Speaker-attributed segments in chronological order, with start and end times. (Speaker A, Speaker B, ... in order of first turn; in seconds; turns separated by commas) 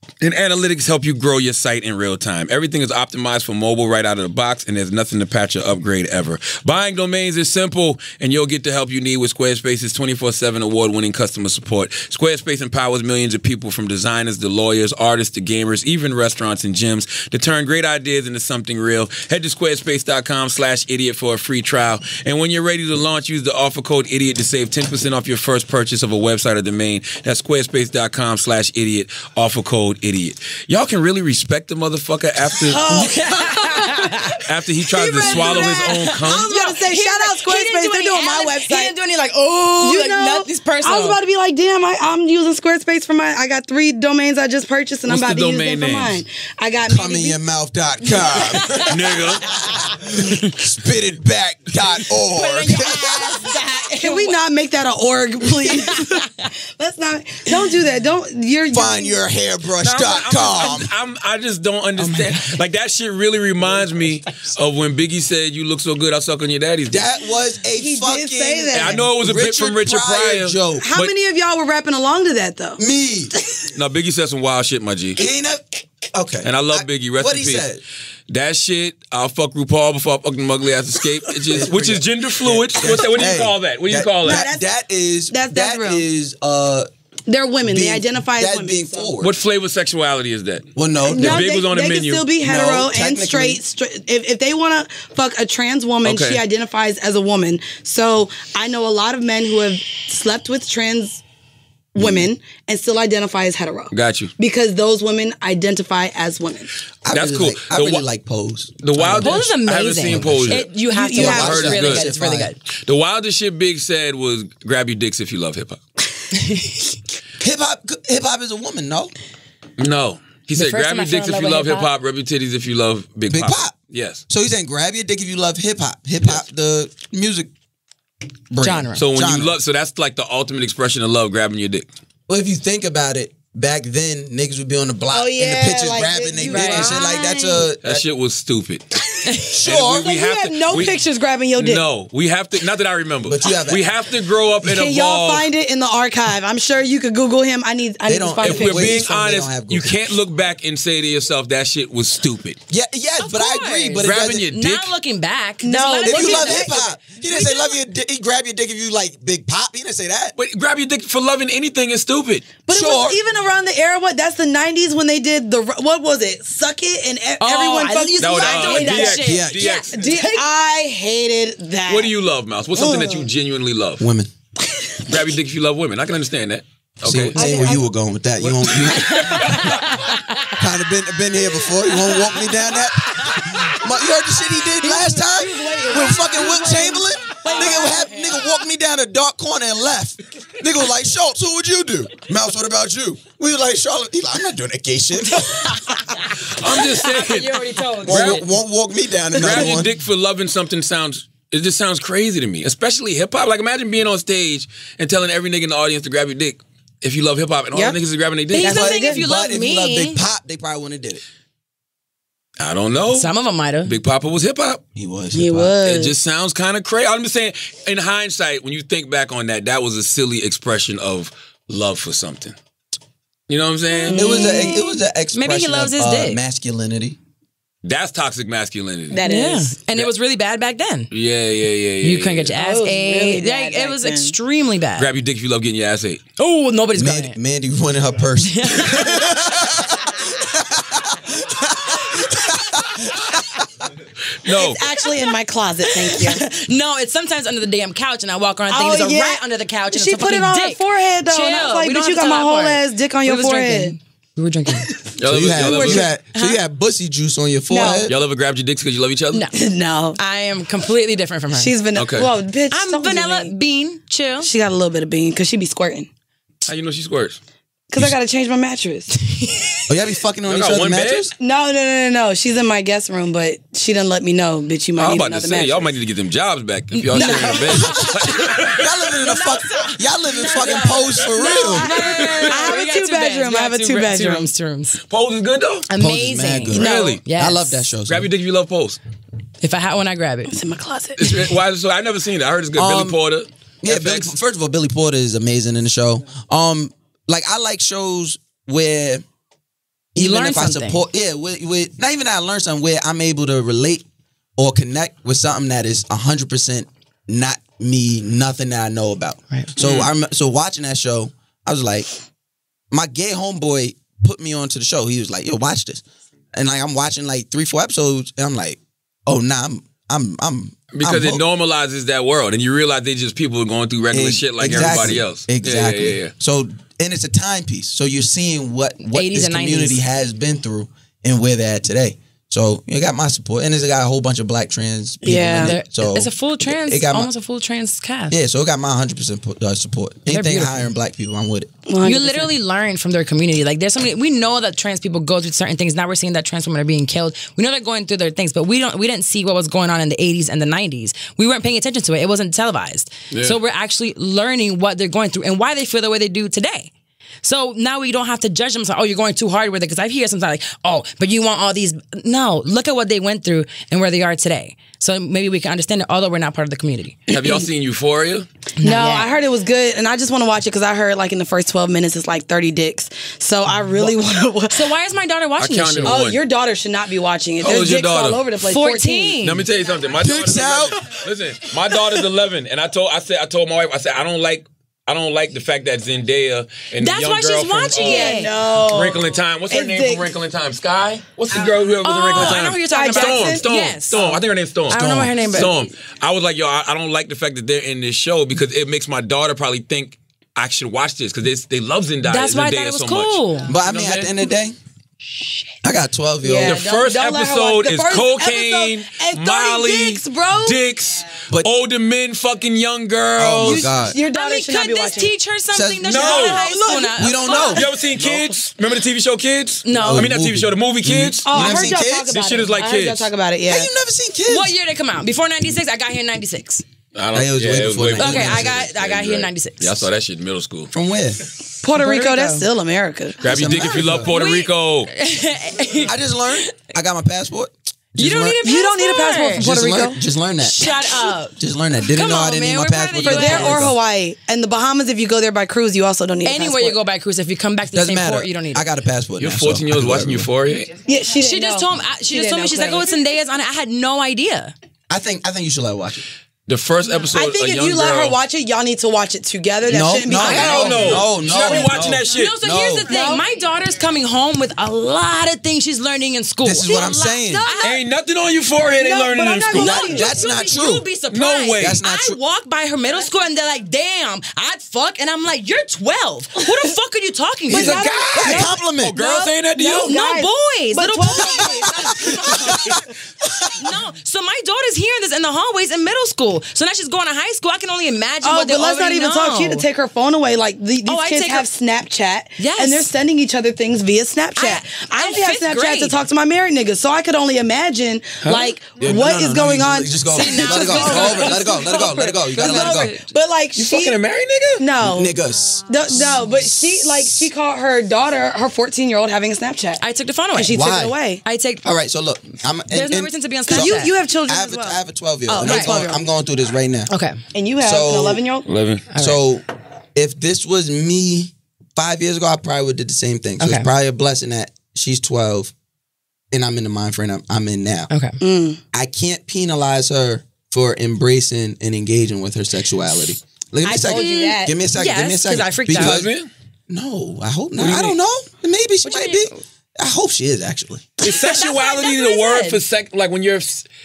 Speaker A: 0.2-32.8, Speaker B: 32.6-34.3, Speaker C: 32.8-34.4, Speaker A: 34.4-36.5, Speaker B: 34.9-39.0, Speaker C: 35.1-41.2, Speaker B: 39.8-47.4, Speaker A: 45.1-46.2, Speaker D: 46.9-53.4, Speaker C: 48.3-48.9, Speaker A: 48.9-49.4, Speaker C: 52.3-54.4, Speaker B: 54.0-59.2, Speaker C: 55.6-56.4, Speaker D: 58.7-60.9, Speaker A: 59.8-67.0, Speaker D: 66.9-70.9, Speaker B: 67.8-69.0, Speaker A: 68.7-71.1, Speaker B: 70.8-72.8, Speaker D: 72.8-73.3, Speaker A: 73.7-75.2, Speaker D: 75.1-77.8, Speaker A: 76.4-77.6, Speaker A: 78.3-84.5, Speaker D: 81.5-86.9, Speaker B: 84.2-84.6, Speaker B: 85.3-86.0, Speaker B: 87.3-89.1, Speaker D: 87.6-89.3, Speaker A: 89.2-92.3, Speaker D: 90.8-91.4, Speaker B: 91.0-101.2, Speaker D: 92.4-93.6, Speaker A: 96.0-96.4, Speaker B: 101.9-106.7, Speaker D: 102.0-102.3, Speaker A: 103.9-104.3, Speaker D: 107.0-112.5, Speaker A: 107.1-108.0, Speaker A: 108.8-112.0, Speaker C: 109.2-112.6, Speaker B: 110.9-111.9, Speaker A: 112.7-115.8, Speaker C: 116.3-116.8, Speaker D: 117.4-119.1, Speaker A: 119.8-124.2, Speaker C: 120.5-121.9, Speaker D: 123.3-123.7, Speaker D: 124.3-127.5, Speaker D: 128.5-129.5, Speaker C: 128.6-129.0, Speaker A: 128.9-131.8, Speaker D: 132.3-138.0, Speaker B: 135.1-137.7, Speaker C: 136.4-137.0, Speaker A: 137.8-138.9, Speaker C: 139.2-139.6, Speaker D: 139.5-140.1, Speaker A: 139.6-141.0, Speaker B: 139.8-141.8, Speaker A: 141.6-145.5, Speaker D: 143.2-143.8, Speaker B: 144.6-149.0, Speaker D: 148.1-150.0, Speaker A: 148.4-152.6, Speaker D: 152.7-154.5, Speaker C: 153.2-156.8, Speaker A: 154.0-154.9, Speaker B: 155.6-157.7, Speaker D: 156.1-160.3, Speaker A: 160.4-162.5, Speaker B: 162.7-169.3, Speaker D: 162.7-163.2, Speaker C: 167.4-169.9, Speaker A: 168.2-170.0, Speaker D: 169.2-169.8, Speaker B: 169.9-172.1, Speaker A: 171.9-174.1, Speaker B: 172.7-173.2, Speaker D: 174.0-174.3, Speaker A: 175.0-177.3, Speaker D: 177.0-179.6, Speaker B: 177.3-177.8, Speaker A: 178.4-179.8, Speaker C: 179.4-180.4, Speaker D: 180.6-195.7, Speaker B: 184.8-187.9, Speaker C: 186.1-186.7, Speaker C: 187.4-188.2, Speaker A: 196.4-198.4, Speaker C: 197.1-198.4, Speaker D: 198.0-199.9, Speaker A: 199.4-208.8, Speaker B: 207.7-208.0, Speaker C: 208.5-210.2, Speaker B: 208.5-209.2, Speaker D: 208.6-211.2, Speaker A: 212.6-213.3, Speaker C: 213.1-213.9, Speaker A: 213.8-214.8, Speaker D: 214.9-215.7, Speaker B: 215.3-216.1, Speaker A: 215.8-222.6, Speaker A: 223.5-224.5, Speaker B: 224.0-224.9, Speaker D: 224.1-227.2, Speaker C: 225.3-226.4, Speaker A: 227.8-229.2, Speaker B: 229.1-229.7, Speaker C: 229.2-231.1, Speaker A: 231.1-232.6, Speaker C: 232.0-235.1, Speaker B: 232.6-234.3, Speaker A: 235.0-236.2, Speaker C: 236.4-237.4, Speaker D: 236.9-243.7, Speaker C: 238.5-239.2, Speaker A: 244.4-244.8, Speaker B: 244.5-246.4, Speaker C: 246.2-254.9, Speaker B: 248.7-253.9, Speaker A: 255.2-256.1, Speaker D: 255.2-258.1, Speaker B: 255.6-256.0, Speaker B: 257.7-258.1, Speaker A: 258.1-259.4, Speaker B: 259.5-260.2, Speaker C: 260.1-261.7, Speaker B: 261.5-263.5, Speaker A: 261.9-262.3, Speaker C: 262.7-264.5, Speaker B: 264.4-266.1, Speaker A: 266.6-267.4, Speaker B: 267.9-269.2, Speaker D: 269.9-271.3, Speaker A: 270.5-271.3, Speaker B: 271.4-275.9, Speaker A: 275.0-278.9, Speaker C: 276.9-278.0, Speaker B: 277.1-278.2, Speaker D: 277.8-281.9, Speaker C: 279.1-285.0, Speaker B: 281.4-284.5, Speaker A: 282.0-282.8, Speaker A: 285.1-285.9, Speaker C: 285.9-287.8, Speaker D: 286.0-288.3, Speaker B: 286.7-287.2, Speaker A: 286.8-287.2, Speaker A: 288.1-289.0, Speaker C: 289.6-290.5, Speaker B: 290.5-291.3, Speaker A: 291.2-294.3, Speaker D: 292.7-293.2, Speaker D: 293.8-299.2, Speaker D: 300.1-304.0, Speaker C: 300.2-301.0, Speaker D: 304.6-312.1, Speaker A: 309.8-310.1, Speaker D: 312.9-321.4, Speaker A: 320.9-326.3, Speaker D: 324.1-337.3, Speaker C: 329.1-330.0, Speaker B: 335.2-335.8, Speaker C: 335.6-338.4, Speaker D: 338.3-341.7, Speaker C: 340.3-340.8, Speaker B: 341.9-342.5, Speaker C: 342.0-356.9, Speaker A: 353.3-353.6, Speaker C: 357.4-367.2, Speaker A: 367.3-368.5, Speaker C: 368.8-369.3, Speaker B: 368.8-374.9, Speaker C: 374.7-376.2, Speaker A: 375.6-376.4, Speaker B: 376.0-379.4, Speaker A: 377.6-378.4, Speaker C: 378.6-379.6, Speaker A: 379.4-404.3, Speaker D: 380.2-381.0, Speaker C: 387.0-388.5, Speaker B: 388.0-390.3, Speaker C: 392.0-394.2, Speaker B: 392.4-394.4, Speaker C: 394.9-395.8, Speaker D: 394.9-395.7, Speaker C: 402.2-403.7, Speaker D: 403.7-404.8, Speaker D: 405.8-406.8, Speaker B: 406.4-410.8, Speaker A: 406.6-413.9, Speaker D: 413.4-414.2, Speaker B: 413.7-415.3, Speaker C: 414.3-417.8, Speaker D: 415.7-416.1, Speaker A: 416.0-416.6, Speaker B: 416.2-418.3, Speaker D: 416.9-418.4, Speaker A: 417.7-423.3, Speaker C: 419.8-420.3, Speaker D: 419.9-422.3, Speaker B: 421.4-423.9, Speaker D: 423.6-424.7, Speaker C: 424.5-426.8, Speaker A: 427.1-430.9, Speaker D: 427.3-428.9, Speaker C: 428.2-430.1, Speaker D: 430.9-431.4, Speaker B: 431.8-433.4, Speaker C: 431.9-432.6, Speaker D: 433.4-434.3, Speaker A: 433.4-435.1, Speaker C: 434.3-436.1, Speaker D: 436.0-438.6, Speaker C: 438.2-439.7, Speaker B: 438.6-440.2, Speaker D: 439.6-441.0, Speaker C: 440.6-441.6, Speaker D: 441.6-444.0, Speaker C: 442.1-443.9, Speaker B: 443.2-447.0, Speaker C: 446.4-448.9, Speaker D: 447.9-450.5, Speaker A: 449.4-450.9, Speaker B: 451.1-453.1, Speaker C: 451.3-454.7, Speaker D: 455.1-456.2, Speaker A: 456.7-458.4, Speaker B: 457.3-461.9, Speaker D: 459.9-463.1, Speaker A: 460.3-462.6, Speaker C: 460.6-461.1, Speaker C: 461.7-468.0, Speaker B: 463.0-463.4, Speaker D: 466.6-467.6, Speaker B: 467.5-467.8, Speaker A: 467.8-470.0, Speaker B: 469.0-470.3, Speaker D: 469.7-471.1, Speaker C: 469.7-483.0, Speaker A: 471.3-472.0, Speaker D: 471.8-472.4, Speaker D: 477.7-479.2, Speaker A: 477.7-480.1, Speaker B: 479.8-483.0, Speaker D: 481.7-483.8, Speaker C: 483.8-489.8, Speaker B: 488.4-504.2, Speaker C: 491.1-491.7, Speaker C: 492.6-493.1, Speaker C: 494.5-496.2, Speaker A: 498.4-498.7, Speaker D: 499.0-503.1, Speaker C: 500.3-503.2, Speaker A: 500.9-502.9, Speaker A: 503.7-504.9, Speaker B: 504.8-510.0, Speaker D: 505.0-505.9, Speaker C: 510.0-510.8, Speaker B: 510.5-511.4, Speaker D: 510.7-511.1, Speaker C: 511.4-511.8, Speaker D: 511.8-517.1, Speaker C: 512.9-514.1, Speaker B: 513.7-516.2, Speaker C: 515.6-516.0, Speaker C: 517.1-517.4, Speaker B: 517.5-518.7, Speaker D: 517.8-518.4, Speaker A: 518.6-519.0, Speaker C: 519.1-519.4, Speaker D: 519.1-525.7, Speaker C: 523.6-523.9, Speaker D: 526.5-528.1, Speaker C: 528.1-528.4, Speaker B: 528.4-528.8, Speaker D: 528.9-536.3, Speaker B: 533.8-534.7, Speaker C: 534.0-536.2, Speaker A: 535.9-536.5, Speaker D: 536.9-541.1, Speaker A: 537.8-538.2, Speaker C: 539.0-539.6, Speaker C: 541.2-542.8, Speaker A: 541.2-543.9